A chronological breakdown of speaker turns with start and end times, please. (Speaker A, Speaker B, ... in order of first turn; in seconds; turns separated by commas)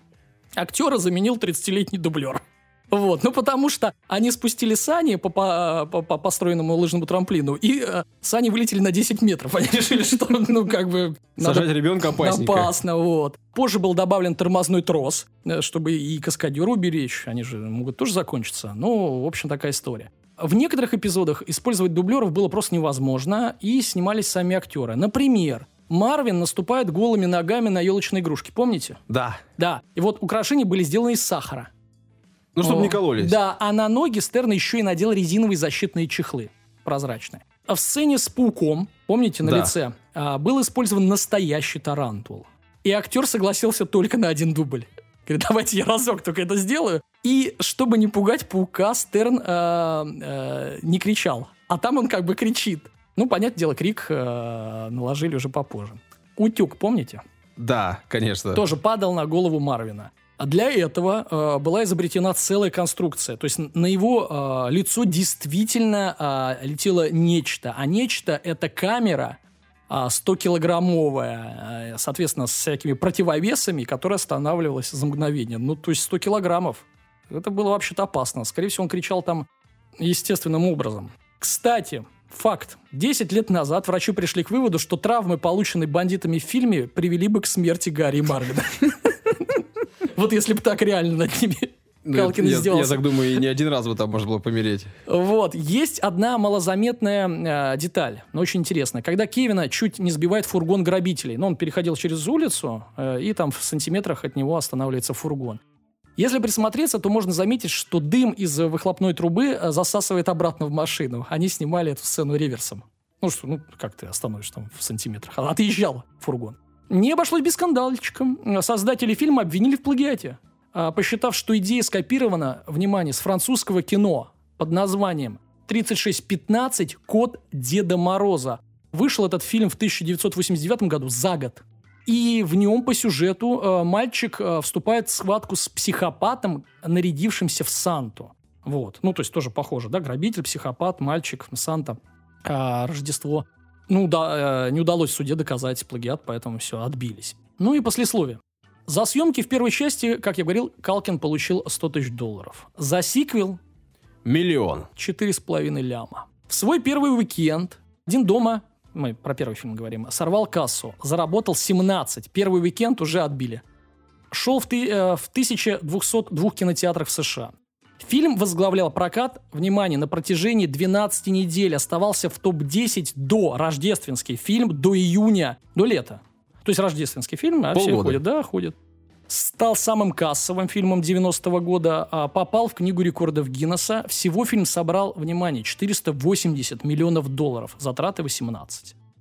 Speaker A: 0.6-29.0, Speaker B: 11.4-12.7, Speaker B: 29.1-29.4, Speaker A: 29.6-31.7, Speaker B: 32.5-33.4, Speaker A: 32.6-57.2, Speaker B: 39.4-39.7, Speaker B: 57.6-58.6, Speaker A: 58.5-79.5, Speaker A: 80.0-89.6, Speaker A: 90.1-93.2, Speaker B: 92.0-94.9, Speaker A: 95.1-105.6, Speaker A: 106.2-153.6, Speaker B: 154.2-154.9, Speaker A: 154.9-163.6, Speaker A: 164.3-178.7, Speaker B: 177.7-178.2, Speaker A: 179.3-188.9